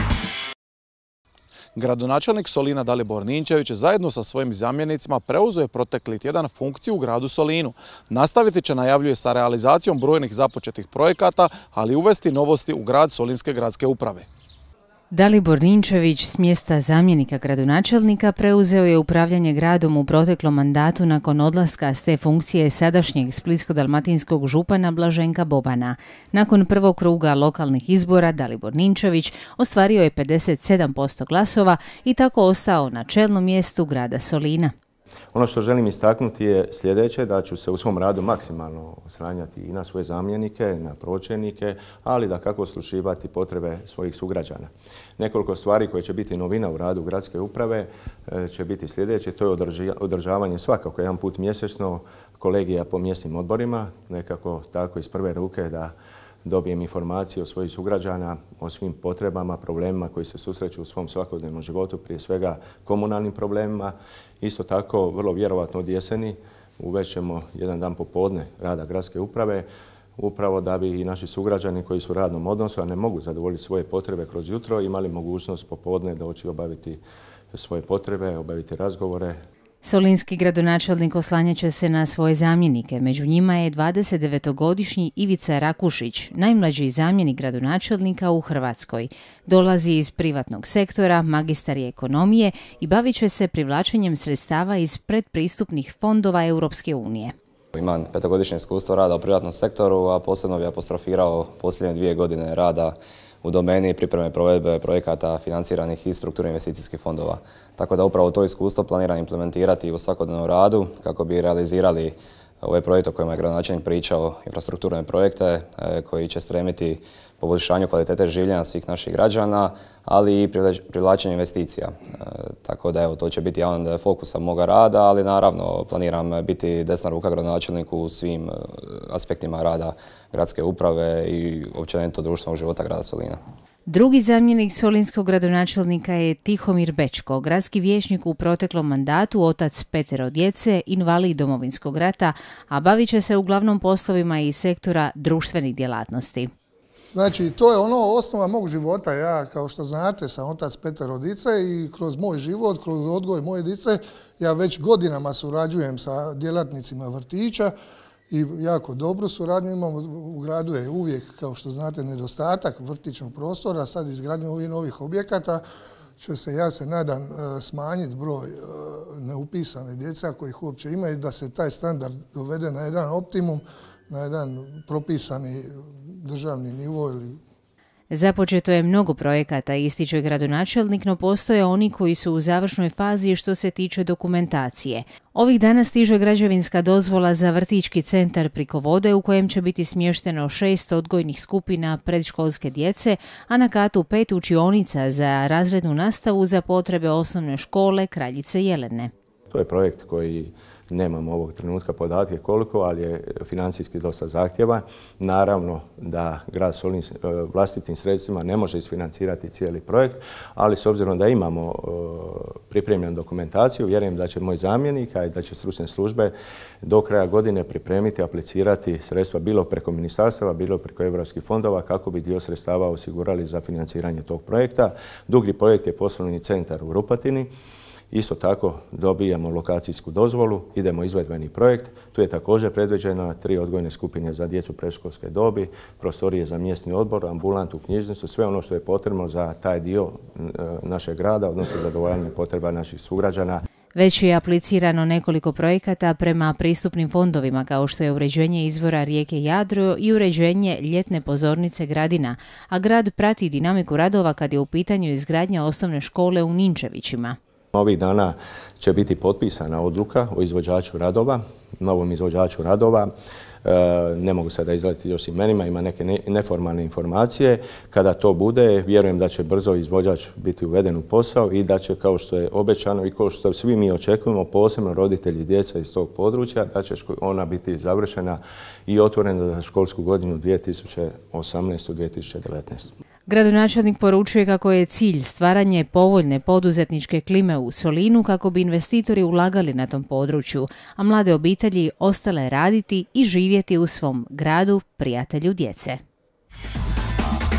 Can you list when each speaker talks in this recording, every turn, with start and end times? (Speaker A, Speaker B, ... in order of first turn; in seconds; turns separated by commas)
Speaker A: 1.8-14.3, Speaker B: 15.1-34.7, Speaker C: 35.3-77.0, Speaker C: 77.5-79.4, Speaker B: 79.8-97.3, Speaker D: 97.7-133.4, Speaker B: 133.9-146.5, Speaker E: 147.1-157.8, Speaker E: 158.3-165.6, Speaker E: 166.2-177.4, Speaker B: 178.1-199.1, Speaker C: 199.5-227.5, Speaker C: 228.1-243.6, Speaker B: 244.0-257.4, Speaker C: 257.7-282.9, Speaker B: 283.3-296.0